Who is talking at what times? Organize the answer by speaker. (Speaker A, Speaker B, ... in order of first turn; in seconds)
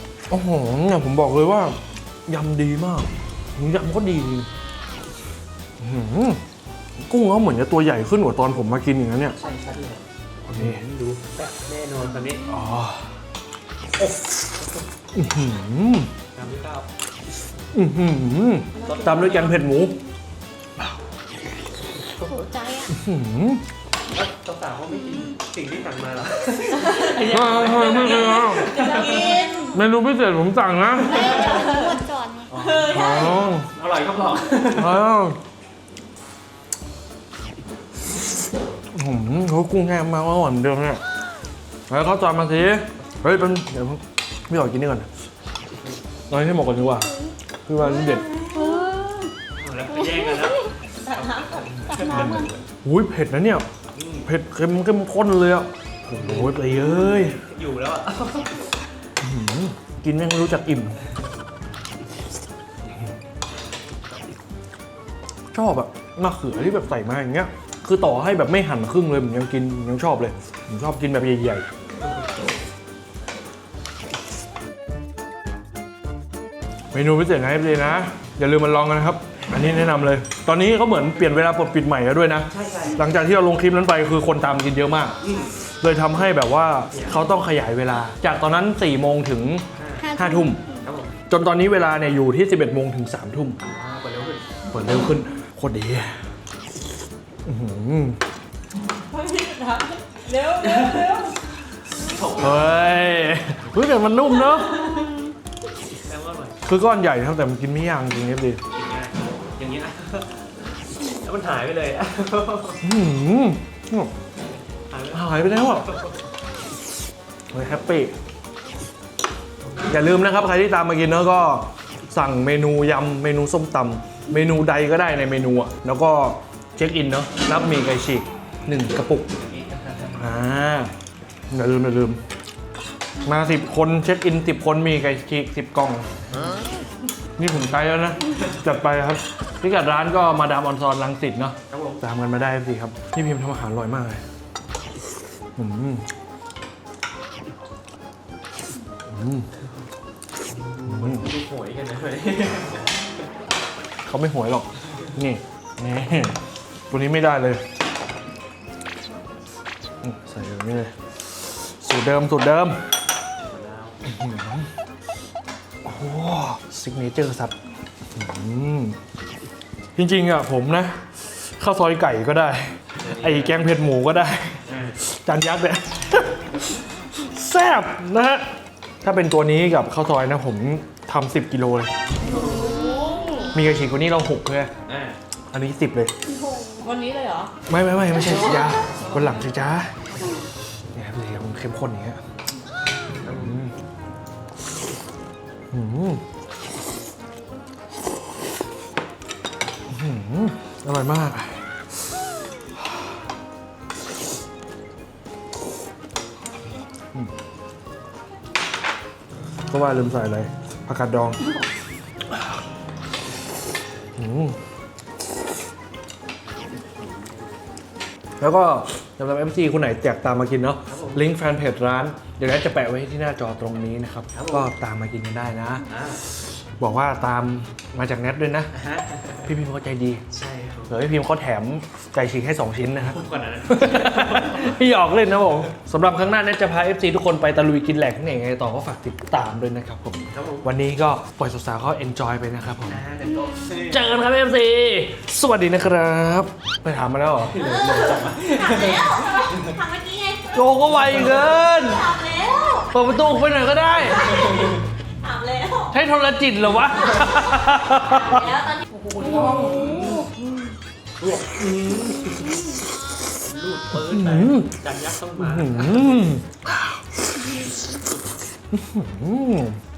Speaker A: 0.3-4.5, 5.8-6.4, 7.0-9.4, 10.5-10.8, 12.4-13.1, 15.1-16.1, 17.7-20.0, 22.9-23.6, 27.2-28.7, 29.7-31.3, 32.9-33.7, 34.7-35.4, 38.9-41.0, 41.9-45.1, 46.3-47.1, 47.6-48.3, 52.1-53.6, 54.2-57.4, 59.2-61.0, 65.5-71.7, 76.9-90.6, 91.3-93.6, 94.7-96.2, 97.4-98.2, 102.4-104.9, 106.6-108.6, 112.8-114.1, 115.1-115.9, 117.5-118.1, 119.9-129.3, 130.2-130.9, 131.5-132.2, 133.2-136.1, 137.4-144.2, 145.6-146.1, 149.1-149.5, 150.9-151.3, 154.1-156.4, 156.9-157.6, 160.0-162.8, 164.0-164.7, 165.8-167.5, 168.1-169.0, 169.9-178.5, 179.0-181.9, 183.5-184.7, 185.5-186.1, 187.7-189.9, 190.9-192.2, 193.3-193.7, 195.7-196.2, 199.9-202.2, 209.7-211.4, 214.2-214.6, 218.4-225.8, 226.8-228.7, 229.4-230.2, 230.9-243.0, 243.9-247.5, 250.5-252.1, 252.9-254.3, 255.9-258.5, 259.3-260.1, 263.9-264.7, 265.4-267.8, 268.7-269.8
Speaker B: 9.4-12.4, 16.3-16.9, 18.8-19.6, 24.1-29.5, 32.5-35.0, 49.5-52.6, 53.9-54.3, 56.1-58.7, 82.5-83.0, 85.2-85.5, 86.9-87.3, 89.8-90.1, 90.8-91.2, 93.6-94.5, 100.6-101.2, 102.0-102.8, 106.0-106.6, 108.7-112.8, 114.9-116.1, 129.3-130.3, 141.7-142.0, 150.5-153.0, 163.4-164.0, 173.0-173.6, 174.7-175.0, 182.2-182.8, 184.8-185.2, 193.2-193.6, 220.8-221.2, 224.3-224.7, 225.9-226.2, 228.7-229.5, 230.3-231.0, 233.0-234.8, 240.3-240.7, 242.8-244.0, 247.4-249.8, 254.1-254.8, 259.1-260.3, 261.2-262.7, 263.4-266.3
Speaker C: 22.2-22.9, 29.0-29.7, 31.0-32.5, 47.8-49.3, 50.0-50.5, 51.9-52.5, 90.0-90.8, 182.4-183.5, 186.3-187.0, 259.3-260.0
Speaker D: 27.9-29.8, 31.1-31.9, 32.5-33.4, 48.5-48.8, 99.1-100.4, 182.3-183.5, 186.8-187.5, 247.8-252.9, 254.2-255.9, 258.0-259.9